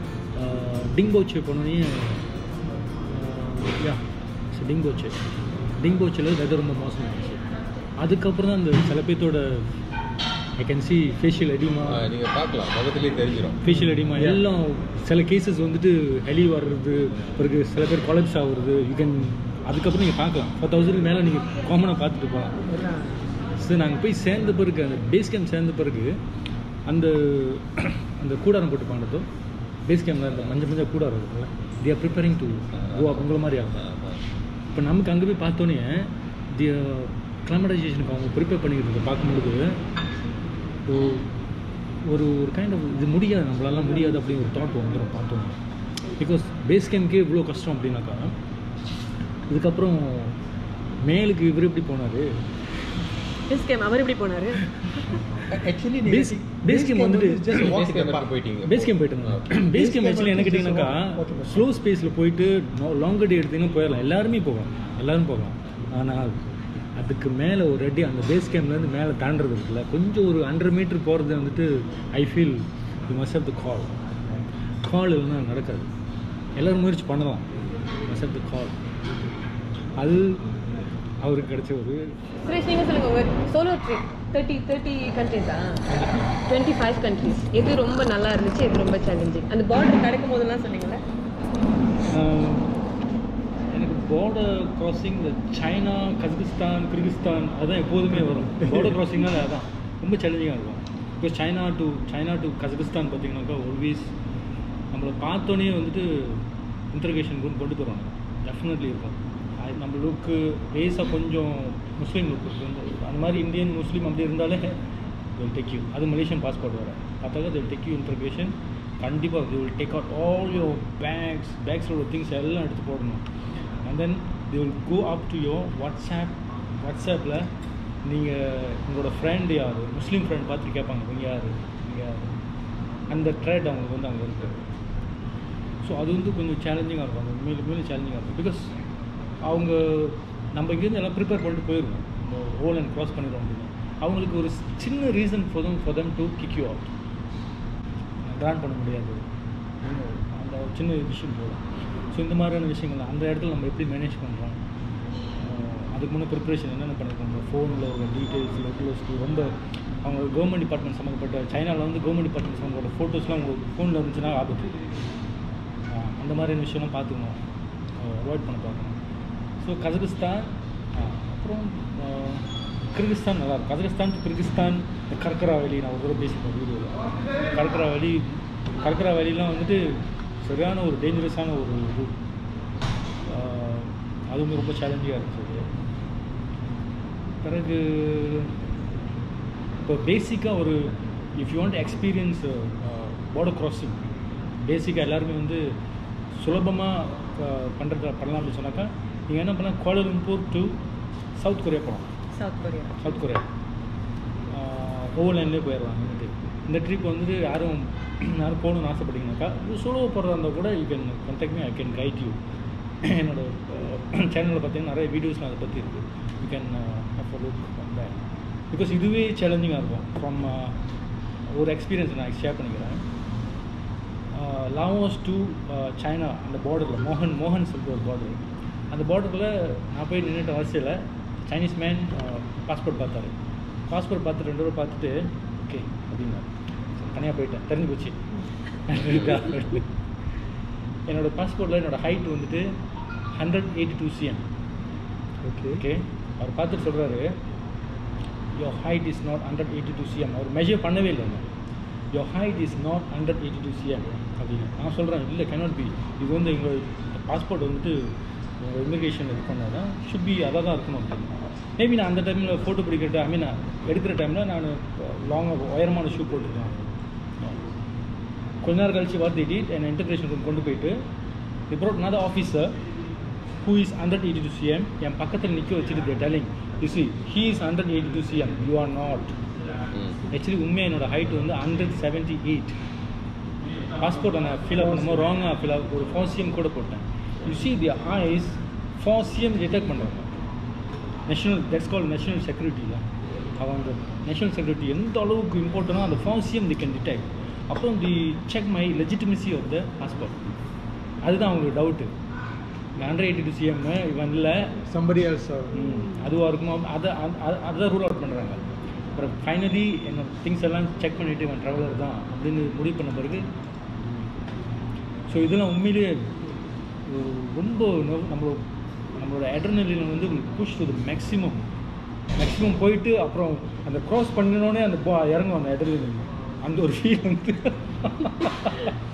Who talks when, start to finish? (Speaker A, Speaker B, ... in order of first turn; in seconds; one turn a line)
Speaker A: 0.3-2.3
Speaker A: 3.1-5.2
Speaker A: 5.8-7.4
Speaker A: 8.0-9.7
Speaker A: 10.6-12.1
Speaker B: 11.9-13.6
Speaker A: 13.6-22.6
Speaker C: 13.7-14.4
Speaker A: 23.6-26.2
Speaker A: 26.9-29.3
Speaker A: 29.9-33.9
Speaker B: 32.8-34.2
Speaker A: 34.7-39.8
Speaker A: 40.9-41.3
Speaker A: 42.0-45.6
Speaker A: 46.2-48.4
Speaker A: 49.5-50.4
Speaker A: 51.0-52.3
Speaker D: 53.5-54.6
Speaker C: 55.5-58.3
Speaker A: 56.0-57.9
Speaker B: 57.5-59.5
Speaker A: 58.6-66.4
Speaker C: 59.7-61.7
Speaker A: 67.0-74.0
Speaker A: 74.8-75.9
Speaker A: 76.6-77.5
Speaker A: 78.1-78.8
Speaker A: 80.0-80.5
Speaker A: 81.2-82.2
Speaker D: 82.5-91.0
Speaker A: 85.9-86.3
Speaker A: 92.0-92.8
Speaker A: 93.7-104.1
Speaker A: 104.9-114.8
Speaker A: 115.4-123.2
Speaker A: 123.8-127.5
Speaker A: 128.0-132.3
Speaker A: 133.1-134.6
Speaker A: 135.8-138.7
Speaker A: 139.4-146.9
Speaker A: 148.2-149.2
Speaker A: 149.8-154.6
Speaker A: 155.4-164.7
Speaker A: 165.9-167.4
Speaker A: 168.0-169.0
Speaker A: 169.6-182.2
Speaker A: 183.3-185.7
Speaker A: 187.4-188.6
Speaker A: 189.8-194.1
Speaker A: 194.6-195.7
Speaker A: 196.4-200.8
Speaker A: 201.4-202.1
Speaker D: 202.4-203.1
Speaker A: 203.0-203.5
Speaker A: 204.5-212.4
Speaker A: 213.0-220.8
Speaker A: 221.5-223.1
Speaker A: 224.3-233.3
Speaker A: 233.9-238.2
Speaker A: 238.8-239.9
Speaker A: 241.1-242.8
Speaker A: 243.3-244.4
Speaker C: 245.4-245.8
Speaker A: 245.8-247.3
Speaker A: 248.6-251.5
Speaker A: 252.1-266.8
Speaker A: 268.6-271.0
Speaker A: 271.7-272.8
Speaker A: 273.6-279.4
Speaker A: 280.3-282.8
Speaker A: 284.0-290.4
Speaker C: 284.9-285.1
Speaker A: 291.3-300.4
Speaker A: 301.2-302.1
Speaker A: 303.0-304.8
Speaker C: 304.9-305.7
Speaker A: 305.7-313.5
Speaker A: 315.3-316.3
Speaker A: 317.1-318.6
Speaker A: 319.2-321.6
Speaker A: 322.4-328.9